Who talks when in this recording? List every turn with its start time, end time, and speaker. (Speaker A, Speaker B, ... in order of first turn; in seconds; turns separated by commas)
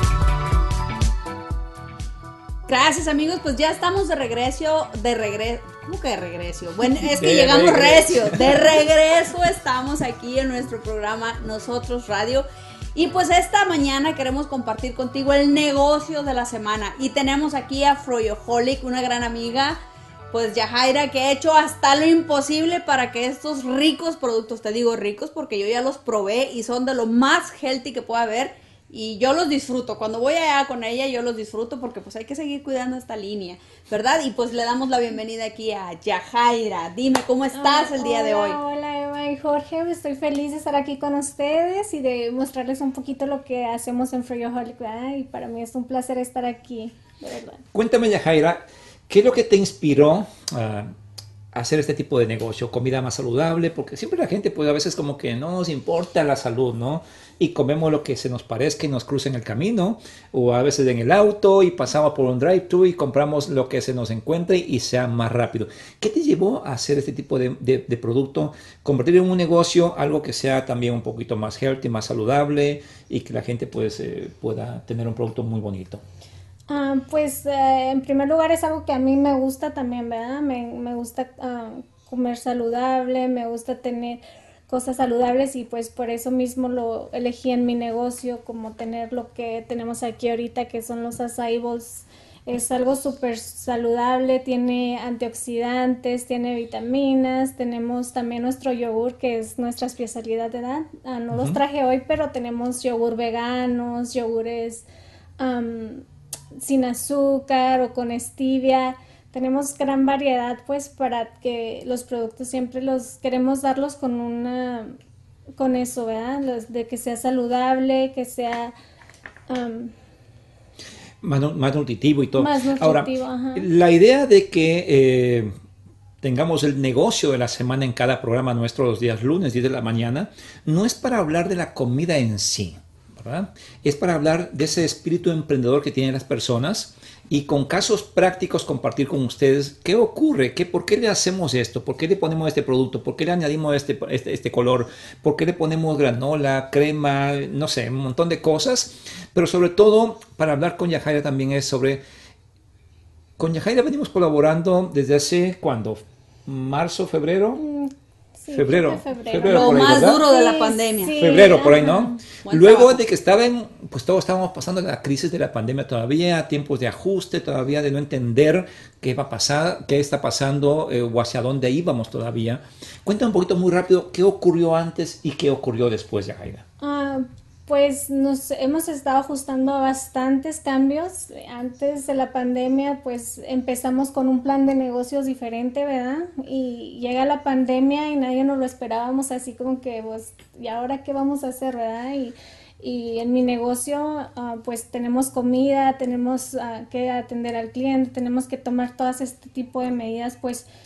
Speaker A: 2.7-19.8, Speaker B: 7.0-8.8, Speaker A: 20.3-38.6, Speaker C: 37.5-47.6, Speaker B: 47.7-50.9, Speaker B: 51.5-76.0, Speaker C: 76.7-104.8, Speaker B: 101.3-101.6, Speaker C: 105.4-106.0, Speaker C: 106.6-114.9, Speaker C: 115.6-118.8, Speaker C: 119.5-119.9, Speaker B: 121.2-125.5, Speaker C: 122.4-123.7, Speaker B: 126.2-152.0, Speaker B: 153.4-157.6, Speaker C: 157.6-162.2, Speaker B: 158.5-160.2, Speaker A: 159.5-161.2, Speaker B: 161.1-176.7, Speaker A: 162.4-163.0, Speaker C: 176.8-200.7